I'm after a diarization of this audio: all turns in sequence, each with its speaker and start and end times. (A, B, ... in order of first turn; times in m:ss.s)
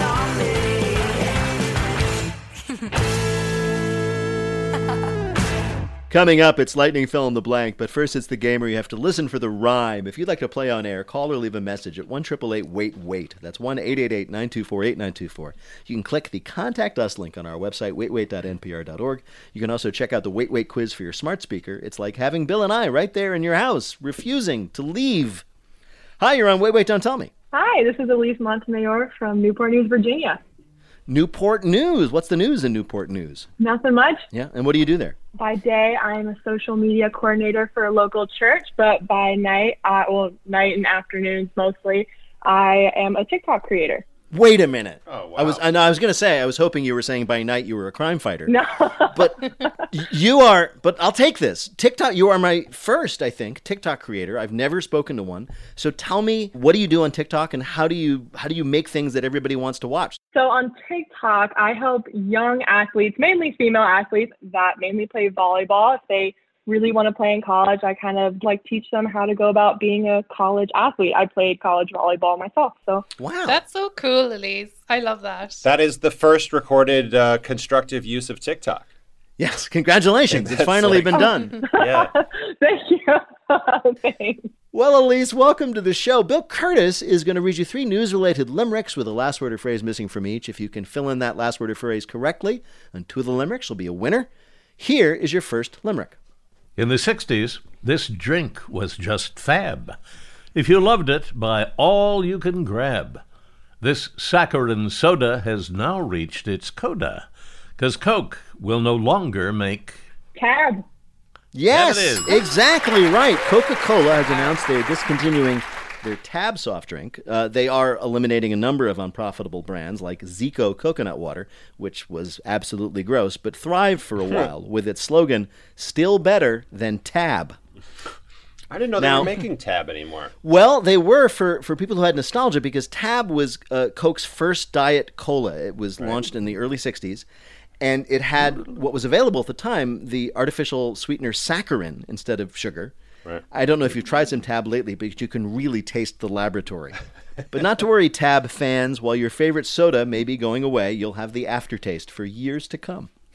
0:06.1-0:25.4 A
0:26.2-0:27.3 A
0:27.5-0:30.4 B
0:31.1-0:33.5 A
0:33.6-0:34.2 B
0:34.3-0:35.2 A
0:35.4-0:44.0 B
0:44.3-0:48.5 A
0:45.1-0:45.6 C
0:48.5-0:49.5 B
0:49.1-1:00.2 A
1:00.3-1:13.0 B
1:13.2-1:13.6 A
1:13.5-1:15.6 D
1:15.6-1:18.9 C
1:19.4-1:21.6 A
1:20.3-1:21.3 C
1:21.1-1:24.5 B
1:21.8-1:22.1 C
1:24.7-1:36.2 A
1:36.8-1:40.0 E
1:40.6-1:43.2 E
1:43.8-1:50.0 E
1:50.4-1:50.9 B
1:51.5-2:07.6 A
1:51.7-1:52.4 E
2:08.7-2:10.3 C
2:09.0-2:09.4 A
2:10.4-2:17.3 A
2:17.8-2:22.9 A
2:23.5-2:27.0 A
2:27.5-2:33.1 A